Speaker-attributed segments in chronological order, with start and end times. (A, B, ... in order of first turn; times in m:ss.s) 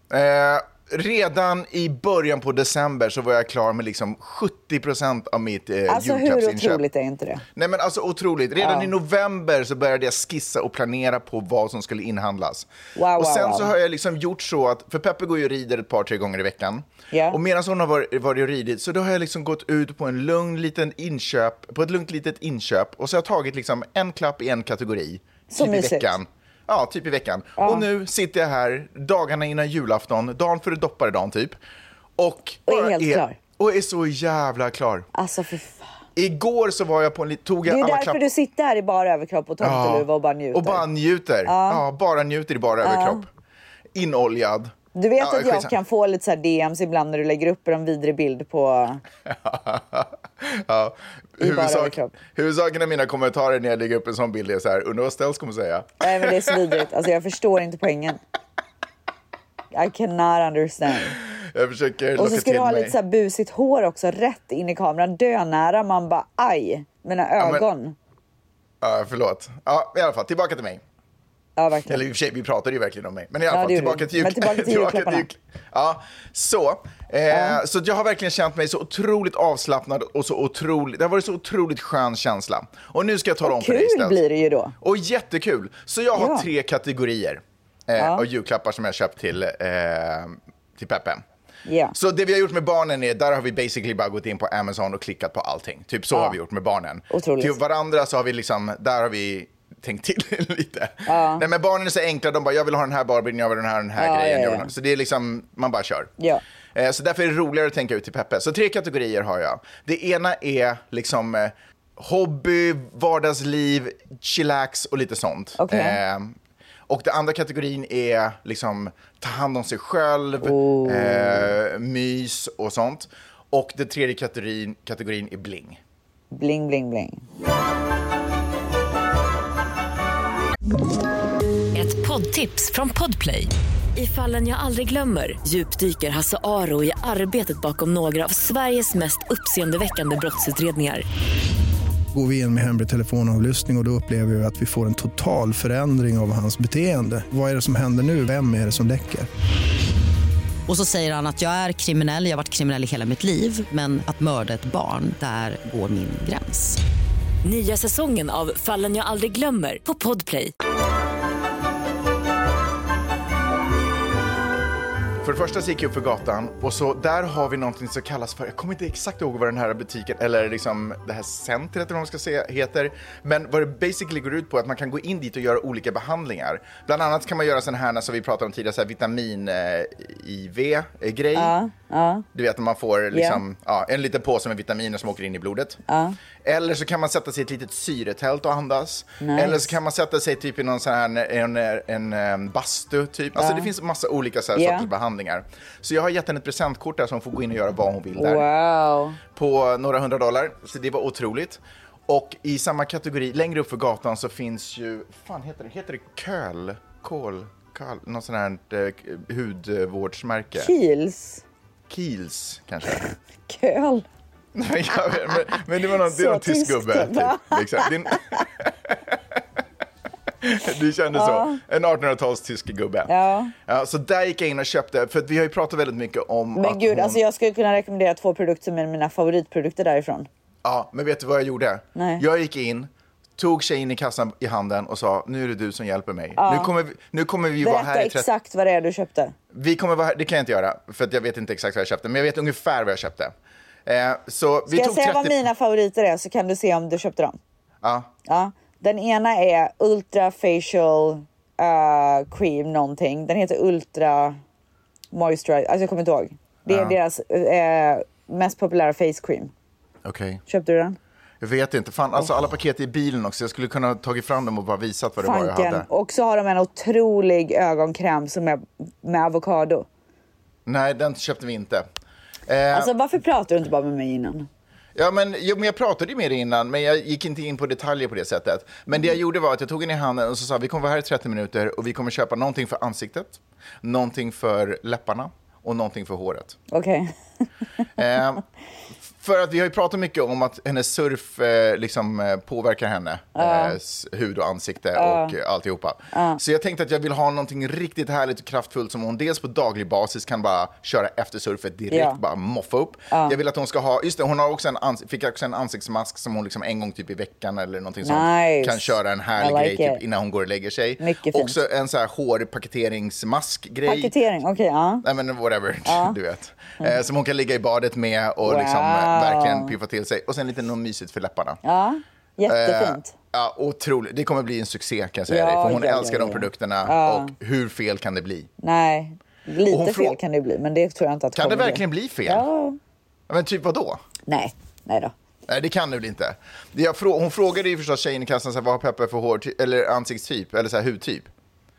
0:00.1-0:06.8 A
0:05.9-0:07.4 B
0:07.6-0:31.6 A
0:08.6-0:08.9 B
0:13.0-0:13.7 B
0:17.1-0:17.4 B
0:25.5-0:26.2 B
0:27.6-0:27.9 B
0:32.2-0:35.1 A
0:32.7-0:33.4 B
0:35.1-0:35.9 B
0:36.2-0:38.2 A
0:37.6-0:40.8 B
0:39.6-0:43.3 A
0:41.4-0:41.8 B
0:42.8-0:43.2 B
0:43.9-0:45.7 A
0:44.9-0:49.0 B
0:49.2-0:56.8 A
0:51.4-0:52.1 B
0:56.0-0:58.2 B
0:59.7-1:01.2 B
1:01.1-1:03.0 A
1:02.2-1:08.0 B
1:07.4-1:07.6 A
1:08.8-1:10.8 A
1:11.6-1:12.0 B
1:11.9-1:24.2 A
1:13.5-1:15.3 B
1:17.3-1:17.6 B
1:23.4-1:24.7 B
1:24.8-1:31.2 A
1:26.2-1:26.5 B
1:28.0-1:28.3 B
1:31.6-1:32.0 B
1:31.9-1:46.1 A
1:36.1-1:36.4 B
1:37.1-1:37.6 B
1:41.0-1:41.4 B
1:44.0-1:44.7 B
1:46.7-1:56.4 A
1:55.6-1:56.0 B
1:56.9-2:05.8 A
2:00.4-2:01.5 B
2:06.3-2:07.2 B
2:11.7-2:21.0 C
2:22.1-2:29.3 D
2:30.7-2:36.8 E
2:37.4-2:40.5 C
2:45.2-3:01.5 A
3:01.3-3:02.2 B
3:02.3-3:05.8 A
3:03.1-3:03.4 B
3:05.9-3:06.2 B
3:06.4-3:18.4 A
3:09.2-3:09.7 B
3:13.4-3:13.7 B
3:14.5-3:14.9 B
3:18.2-3:19.2 B
3:19.3-3:30.7 A
3:30.6-3:31.4 B
3:31.9-3:33.0 A
3:33.5-3:34.0 B
3:34.5-3:39.4 A
3:35.9-3:38.4 B
3:40.4-3:47.2 A
3:41.1-3:41.6 B
3:43.1-3:43.5 B
3:46.6-3:50.3 B
3:50.6-3:58.3 A
3:52.0-3:52.2 B
3:56.4-3:56.7 B
3:57.6-3:59.3 B
3:59.5-4:03.3 A
4:03.8-4:05.4 A
4:04.7-4:07.4 B
4:07.8-4:08.1 A
4:08.3-4:14.4 B
4:15.1-4:19.5 B
4:16.7-4:17.0 A
4:20.0-4:20.4 A
4:20.5-4:21.0 B
4:21.4-4:25.9 A
4:25.2-4:29.9 B
4:30.6-4:31.8 A
4:32.5-4:32.9 A
4:32.7-4:34.5 B
4:34.9-4:46.6 A
4:46.7-4:47.1 B
4:48.0-4:48.4 A
4:49.2-5:14.1 A
4:53.3-4:53.8 B
4:55.0-4:55.3 B
4:56.1-4:56.4 B
5:01.9-5:02.2 B
5:03.1-5:03.4 B
5:08.0-5:10.0 B
5:11.0-5:11.6 B
5:13.8-5:15.0 B
5:15.0-5:21.6 A
5:15.8-5:16.2 B
5:18.4-5:19.7 B
5:21.6-5:23.1 B
5:22.5-5:28.5 A
5:25.3-5:27.3 B
5:28.6-5:32.8 B
5:29.7-5:30.2 A
5:31.3-5:32.4 A
5:33.3-5:34.0 A
5:34.3-5:35.1 B
5:35.5-5:41.3 A